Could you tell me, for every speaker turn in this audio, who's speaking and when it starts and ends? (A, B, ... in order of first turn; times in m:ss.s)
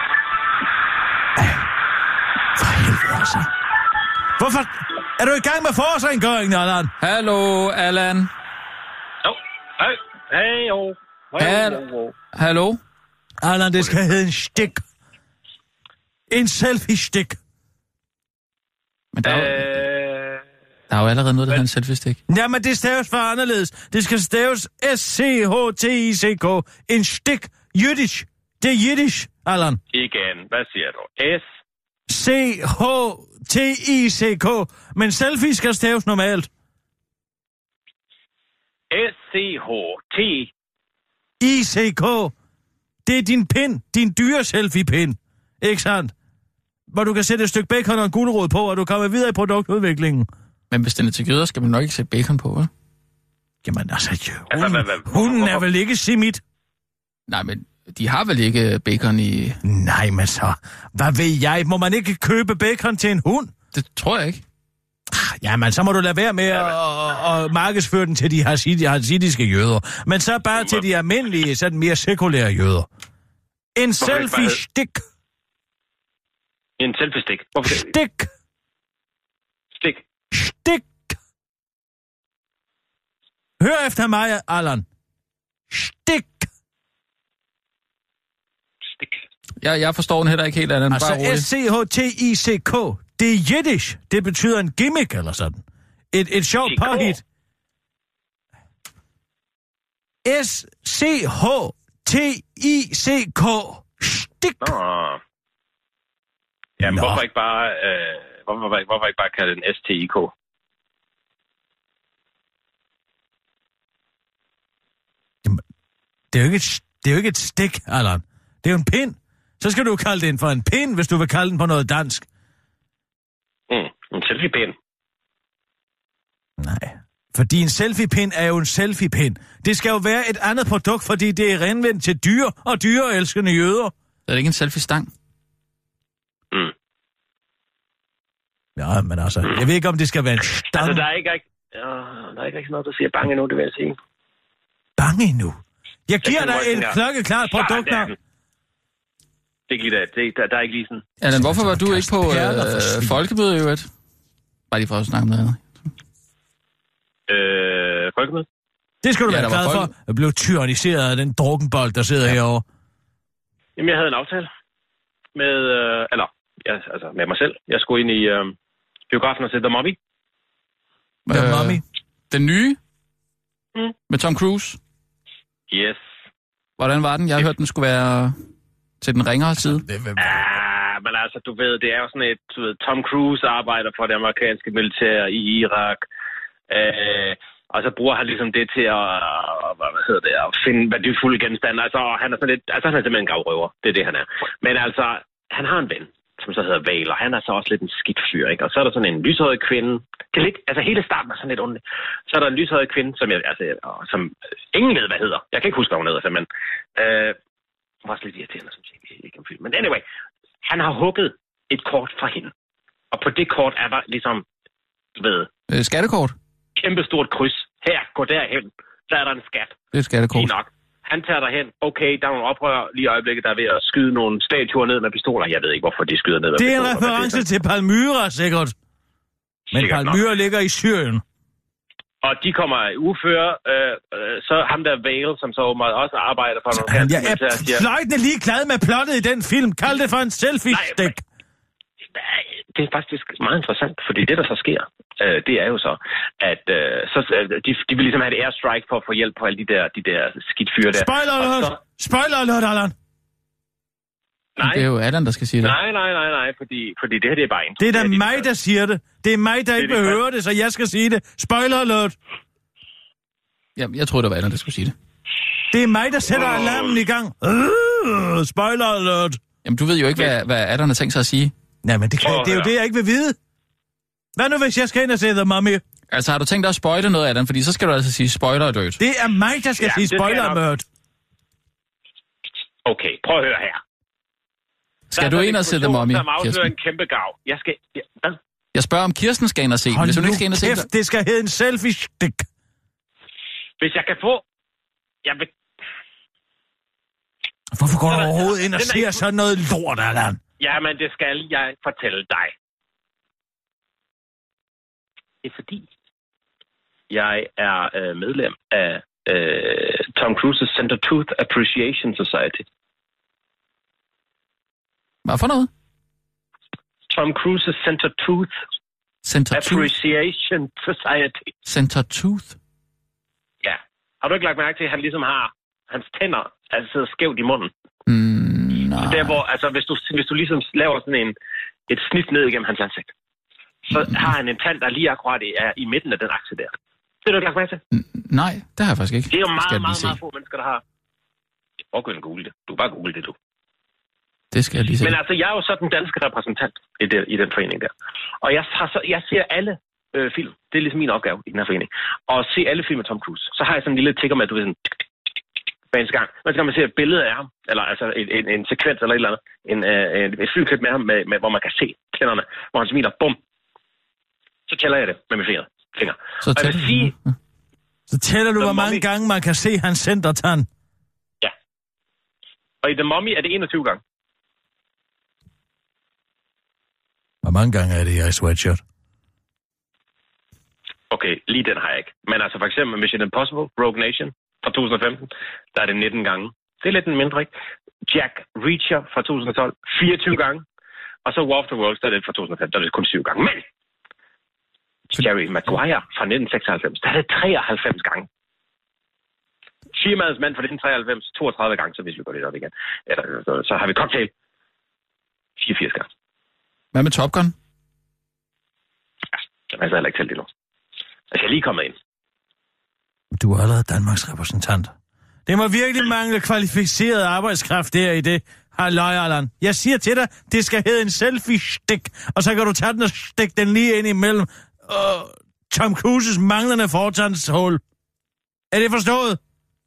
0:01.4-0:01.6 A
0:02.6-0:03.5 A
0:04.4-0:06.9 A
0:07.0-0:08.3 B
0:09.2-0:12.2 C
0:11.4-0:12.8 B
0:13.4-0:14.8 A
0:16.3-0:17.4 A
0:19.1-0:19.8 B
0:19.2-0:20.4 C
0:20.9-0:22.2 B
0:22.3-0:29.8 A
0:29.9-0:31.5 C
0:32.1-0:36.5 A
0:38.9-0:40.5 C
0:41.4-0:42.3 A
0:43.1-0:46.1 A
0:46.9-0:50.3 A
0:50.7-0:52.7 B
0:53.6-0:56.4 A
0:54.5-0:55.6 C
0:57.3-0:59.6 B
0:59.6-1:03.5 A
1:03.7-1:04.4 B
1:05.1-1:12.9 A
1:13.8-1:15.0 A
1:14.0-1:14.6 C
1:16.8-1:17.9 C
1:17.6-1:18.3 A
1:19.8-1:20.0 C
1:20.3-1:21.2 A
1:23.6-1:24.9 A
1:25.7-1:26.5 A
1:29.6-1:31.5 B
1:30.9-1:37.2 A
1:36.6-1:37.2 C
1:40.2-1:44.8 A
1:44.6-1:45.2 C
1:46.8-1:50.3 C
1:46.8-1:47.2 A
1:56.3-2:02.3 A
2:03.7-2:04.8 C
2:06.6-2:13.9 A
2:14.3-2:15.1 B
2:18.8-2:21.0 A
2:20.7-2:24.0 C
2:25.0-2:28.1 A
2:26.2-2:27.0 C
2:27.5-2:28.2 C
2:29.7-2:31.1 C
2:31.2-2:33.9 B
2:31.3-2:33.2 A
2:34.7-2:35.6 B
2:37.3-2:38.5 C
2:39.0-2:42.6 A
2:39.3-2:39.9 B
2:43.8-2:44.5 C
2:45.4-2:48.6 C
2:49.1-2:50.0 C
2:51.3-2:52.8 B
2:51.3-2:51.8 A
2:54.1-2:54.8 B
2:55.7-2:56.0 C
2:56.8-2:58.4 B
2:59.0-2:59.8 B
2:59.6-3:00.6 A
3:00.2-3:06.0 C
3:06.7-3:27.4 C
3:28.0-3:30.0 C
3:30.6-3:32.5 C
3:33.1-3:34.4 C
3:35.2-3:35.5 C
3:35.7-3:36.4 B
3:36.8-3:39.8 C
3:39.9-3:40.5 B
3:40.3-3:47.4 C
3:46.6-3:48.7 A
3:49.7-3:50.2 C
3:49.7-3:51.2 A
3:52.2-3:57.8 C
3:56.9-4:01.2 A
4:00.7-4:01.1 C
4:02.2-4:11.8 C
4:10.8-4:12.9 A
4:14.6-4:14.9 C
4:14.6-4:15.8 B
4:15.6-4:18.5 C
4:17.8-4:22.2 A
4:19.8-4:20.2 C
4:23.8-4:25.0 B
4:25.7-4:29.4 A
4:26.3-4:27.0 C
4:29.6-4:31.5 B
4:31.8-4:33.4 A
4:32.2-4:32.7 C
4:34.4-4:35.8 A
4:36.1-4:39.0 B
4:39.0-4:40.8 A
4:39.8-4:40.6 C
4:42.8-4:43.8 C
4:45.1-4:46.7 B
4:45.2-4:48.4 C
4:48.7-4:50.9 B
4:49.9-4:52.5 A
4:53.8-4:54.4 C
4:55.2-4:55.5 C
4:57.7-5:00.4 A
4:58.1-4:59.2 C
5:00.6-5:02.5 C
5:05.4-5:05.9 C
5:07.1-5:12.6 C
5:15.2-5:15.7 B
5:17.1-5:18.5 C
5:19.2-5:19.9 B
5:19.5-5:21.5 C
5:21.7-5:22.6 B
5:23.6-5:27.7 C
5:28.1-5:29.4 B
5:29.0-5:31.4 C
5:31.9-5:33.1 C
5:33.9-5:37.8 C
5:37.9-5:40.2 B
5:39.3-5:40.8 C
5:41.9-5:43.4 C
5:44.5-5:45.2 B
5:45.0-5:47.9 C
5:48.4-5:55.0 C
5:55.9-6:03.4 C
6:04.7-6:07.1 C
6:06.4-6:07.2 B
6:08.1-6:10.7 A
6:08.6-6:09.0 C
6:12.8-6:14.0 C
6:17.4-6:18.8 A
6:21.1-6:27.5 C
6:28.0-6:30.6 C
6:31.2-6:33.6 C
6:35.1-6:38.3 C
6:39.9-6:44.3 C
6:45.6-6:46.1 C
6:46.9-6:47.6 B
6:49.7-6:50.5 C
6:51.3-6:52.0 C
6:53.3-6:54.9 A
6:55.5-7:07.8 A
7:08.7-7:09.4 A